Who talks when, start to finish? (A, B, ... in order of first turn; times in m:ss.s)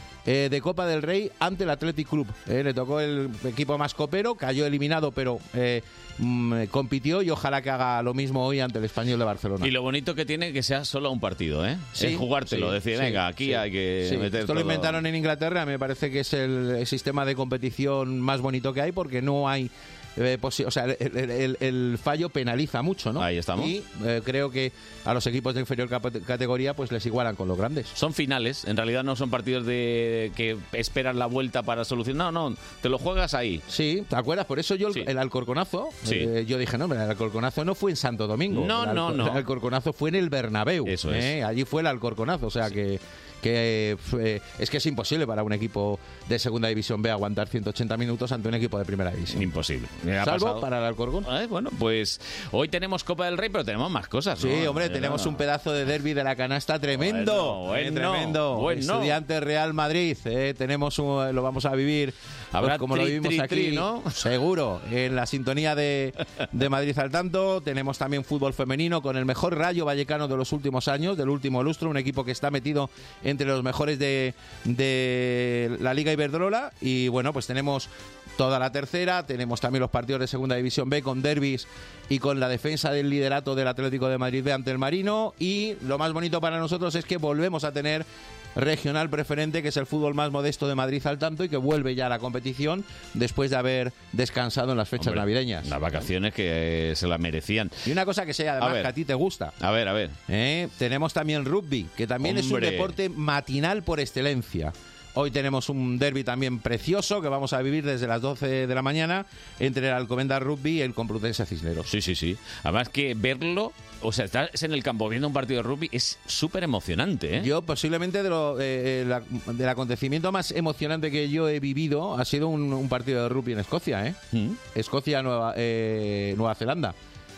0:00.2-0:09.7 A
0:09.6-0:15.0 B
0:12.0-0:27.9 A
0:23.2-0:23.7 B
0:27.9-0:33.6 B
0:33.7-0:49.5 A
0:36.0-0:36.3 B
0:38.5-0:39.4 B
0:40.8-0:41.4 B
0:49.3-0:50.6 B
0:50.2-0:51.3 A
0:51.2-0:55.4 B
0:54.4-1:35.7 A
0:56.9-0:59.2 B
1:02.5-1:04.2 B
1:35.0-1:37.9 B
1:37.8-1:39.5 A
1:38.6-1:38.9 B
1:39.6-1:40.2 B
1:40.3-1:51.9 A
1:42.2-1:42.9 B
1:51.9-1:57.5 B
1:57.4-2:04.2 A
2:04.3-2:04.6 B
2:04.7-2:06.9 A